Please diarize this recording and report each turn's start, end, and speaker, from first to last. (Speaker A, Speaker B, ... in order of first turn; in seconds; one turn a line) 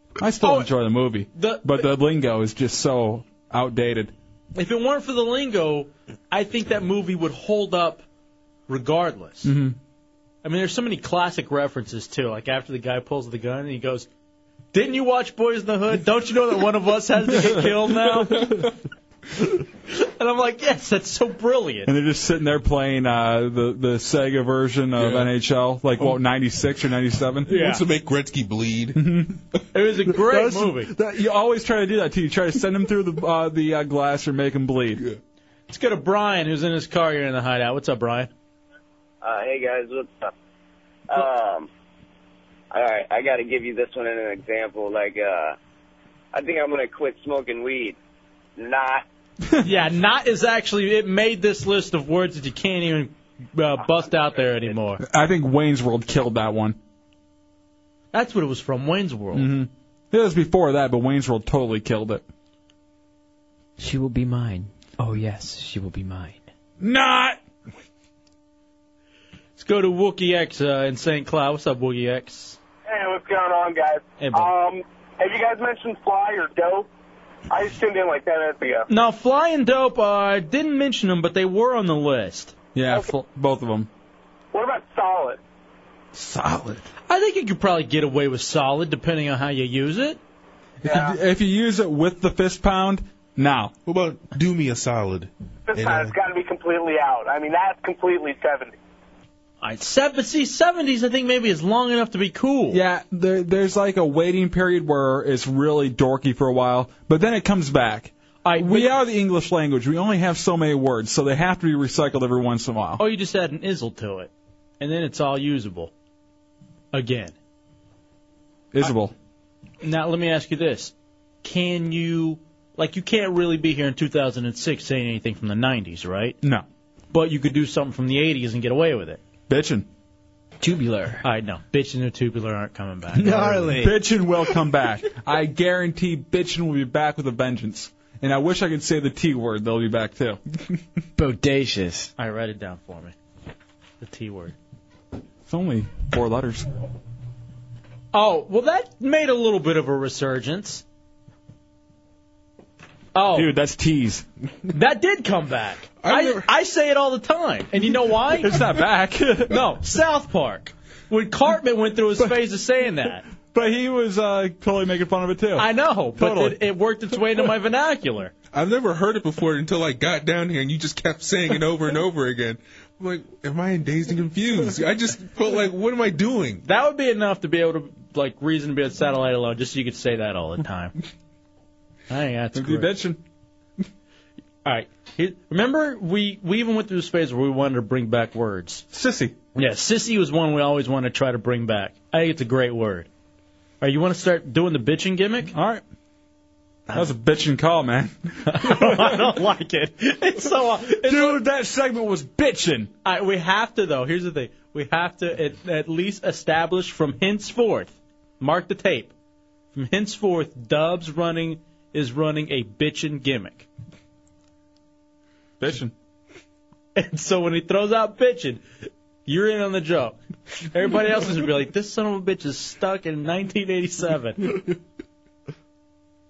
Speaker A: 0.2-4.1
Speaker B: 0.4-0.7
Speaker B: 1.3-1.9
Speaker B: 4.5-8.0
Speaker B: 8.7-9.5
Speaker A: 9.4-9.8
Speaker B: 10.4-14.1
Speaker B: 14.7-18.6
Speaker B: 19.9-21.9
Speaker A: 21.9-27.6
Speaker C: 25.0-25.3
Speaker B: 27.4-27.8
Speaker C: 27.5-29.0
Speaker A: 28.9-29.4
Speaker B: 29.7-30.9
Speaker A: 30.2-35.0
Speaker B: 35.7-38.3
Speaker D: 39.2-40.3
Speaker D: 41.1-41.7
Speaker D: 42.7-45.5
Speaker D: 46.3-47.9
Speaker D: 48.6-49.0
Speaker B: 49.6-55.0
Speaker A: 55.0-56.8
Speaker B: 58.1-59.5
Speaker A: 59.3-62.2
Speaker E: 63.8-66.5
Speaker A: 66.8-67.4
Speaker B: 69.6-72.6
Speaker F: 72.9-76.9
Speaker B: 74.2-74.5
Speaker F: 77.5-78.8
Speaker B: 78.9-82.5
Speaker A: 82.7-83.9
Speaker F: 84.5-85.4
Speaker A: 86.1-86.8
Speaker B: 87.1-90.2
Speaker A: 90.8-93.7
Speaker C: 93.8-96.1
Speaker F: 95.7-98.7
Speaker B: 99.6-102.8
Speaker A: 102.7-113.0
Speaker B: 108.4-108.9
Speaker B: 113.0-115.9
Speaker B: 116.9-117.3
Speaker A: 118.7-119.1
Speaker B: 119.8-126.4
Speaker B: 127.1-129.2
Speaker A: 129.5-129.9
Speaker E: 130.6-131.2
Speaker B: 131.2-133.8
Speaker E: 133.2-133.9
Speaker A: 133.2-140.4
Speaker E: 141.2-142.1
Speaker B: 142.2-143.1
Speaker B: 144.0-144.5
Speaker A: 145.5-146.7
Speaker B: 148.1-150.8
Speaker B: 153.1-153.5
Speaker A: 153.3-154.2
Speaker B: 154.7-158.6
Speaker C: 156.0-156.4
Speaker A: 158.4-159.6
Speaker B: 159.5-163.2
Speaker A: 163.5-166.6
Speaker B: 165.6-168.3
Speaker C: 168.5-176.6
Speaker B: 176.6-180.9
Speaker B: 182.1-182.9
Speaker A: 182.5-183.2
Speaker B: 184.6-188.8
Speaker A: 188.9-189.3
Speaker B: 189.6-193.1
Speaker B: 193.8-195.5
Speaker A: 195.5-195.8
Speaker A: 196.9-199.3
Speaker B: 198.4-201.4
Speaker A: 201.0-202.9
Speaker B: 203.0-209.1
Speaker B: 209.7-213.7
Speaker A: 215.6-215.9
Speaker B: 216.9-218.6
Speaker B: 219.2-220.2
Speaker B: 220.7-224.5